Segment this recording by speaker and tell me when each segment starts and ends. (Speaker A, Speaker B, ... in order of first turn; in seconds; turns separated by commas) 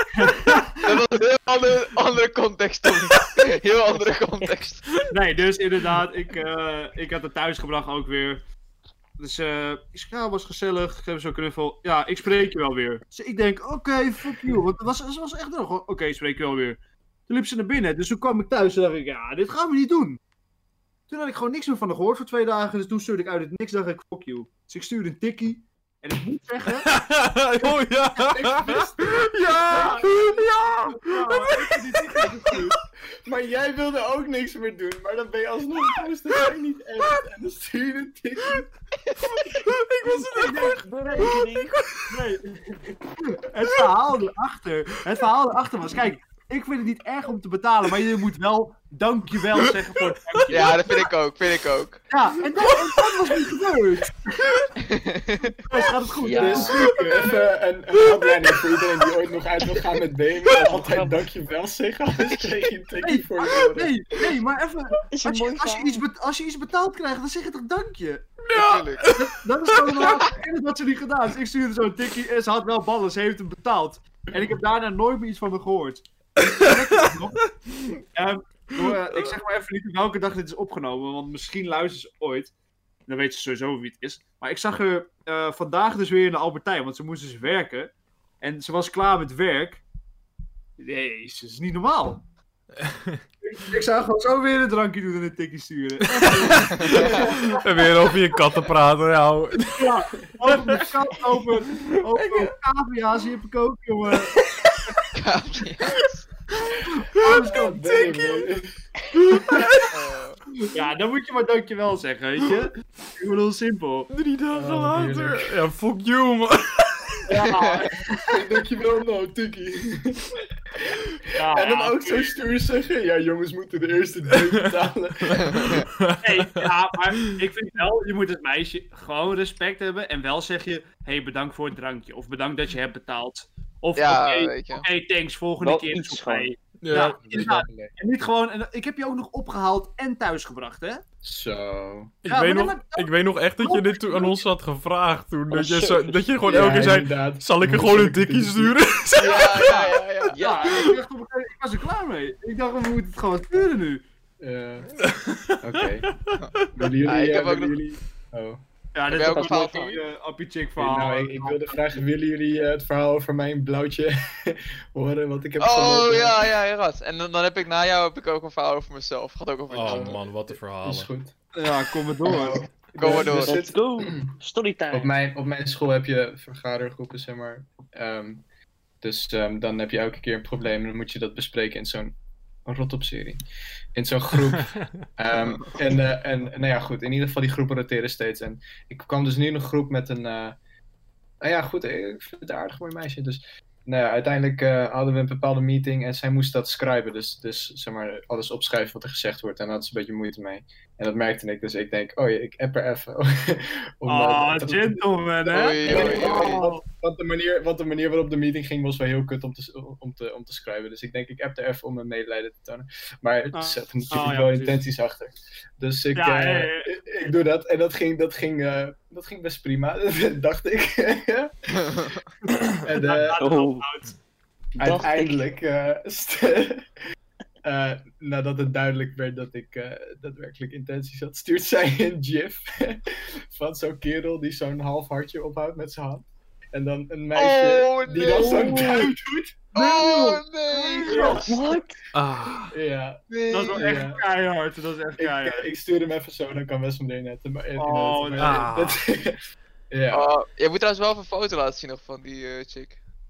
Speaker A: 0.1-0.7, Speaker B: 0.8-4.9, Speaker A: 5.1-8.4, Speaker A: 9.2-16.8, Speaker A: 17.3-20.2, Speaker A: 21.1-26.9, Speaker C: 26.9-32.6, Speaker D: 28.2-29.1, Speaker A: 29.5-32.8, Speaker D: 33.2-38.7, Speaker C: 39.3-42.1, Speaker A: 40.1-41.4, Speaker E: 40.7-41.8, Speaker A: 42.1-50.8, Speaker B: 50.5-52.0, Speaker A: 52.1-54.5, Speaker B: 54.8-55.6, Speaker A: 55.6-57.3, Speaker E: 56.2-56.8, Speaker D: 56.3-64.0, Speaker C: 58.1-58.7, Speaker E: 60.5-61.3, Speaker A: 63.0-68.3, Speaker E: 65.1-66.0, Speaker C: 68.5-70.2, Speaker B: 68.5-69.1, Speaker A: 69.1-77.5, Speaker B: 70.0-70.3, Speaker A: 78.1-82.5, Speaker A: 83.1-89.8, Speaker A: 90.8-92.2, Speaker C: 92.8-93.2, Speaker A: 93.4-97.6, Speaker C: 96.1-99.8, Speaker B: 96.8-97.3, Speaker D: 97.0-97.5, Speaker A: 99.7-104.4, Speaker B: 105.1-106.2, Speaker C: 107.0-108.5, Speaker D: 107.2-108.7, Speaker A: 107.2-107.6, Speaker C: 109.1-109.9, Speaker B: 109.9-110.4, Speaker A: 110.7-114.1, Speaker C: 114.1-117.3, Speaker D: 114.5-115.5, Speaker A: 117.3-118.0, Speaker B: 117.5-117.9, Speaker D: 118.1-125.9, Speaker A: 121.3-122.3, Speaker C: 125.3-126.7, Speaker B: 125.5-125.9, Speaker A: 126.2-141.0, Speaker B: 134.0-134.9, Speaker E: 135.6-136.6, Speaker C: 136.8-137.2, Speaker D: 136.9-137.9, Speaker D: 141.2-142.1, Speaker C: 142.2-149.9, Speaker A: 142.3-144.4, Speaker E: 145.5-146.6, Speaker D: 146.4-148.8, Speaker B: 149.2-150.4, Speaker A: 149.5-154.1, Speaker E: 150.3-150.8, Speaker D: 154.4-155.0, Speaker C: 155.0-156.7, Speaker D: 155.6-156.2, Speaker B: 156.4-157.8, Speaker D: 156.7-158.6, Speaker A: 158.9-162.0, Speaker B: 159.1-160.0, Speaker D: 160.8-166.5, Speaker B: 165.6-170.2, Speaker C: 169.7-171.1, Speaker D: 169.8-171.3, Speaker A: 171.6-172.6, Speaker D: 172.2-174.4, Speaker B: 173.0-173.7, Speaker E: 173.0-175.1, Speaker D: 174.9-178.4, Speaker D: 179.0-182.2, Speaker D: 182.7-183.4, Speaker D: 183.9-190.6, Speaker D: 191.4-222.1, Speaker A: 204.1-206.8, Speaker B: 205.5-206.5, Speaker A: 213.5-214.8, Speaker A: 216.2-216.9, Speaker B: 221.9-222.2, Speaker A: 222.5-224.2, Speaker D: 222.8-223.4, Speaker E: 223.4-223.9, Speaker E: 224.8-225.5, Speaker D: 224.8-226.9, Speaker D: 227.6-239.5, Speaker B: 237.3-238.8, Speaker E: 238.3-238.9, Speaker A: 238.3-239.2, Speaker A: 239.7-241.6, Speaker B: 239.7-241.6, Speaker E: 241.2-242.0, Speaker C: 242.1-242.7, Speaker D: 242.7-244.2, Speaker B: 243.3-243.8, Speaker A: 243.5-245.7, Speaker D: 245.2-249.4, Speaker A: 247.8-248.7, Speaker C: 248.4-249.0, Speaker D: 249.9-250.3, Speaker B: 250.1-253.0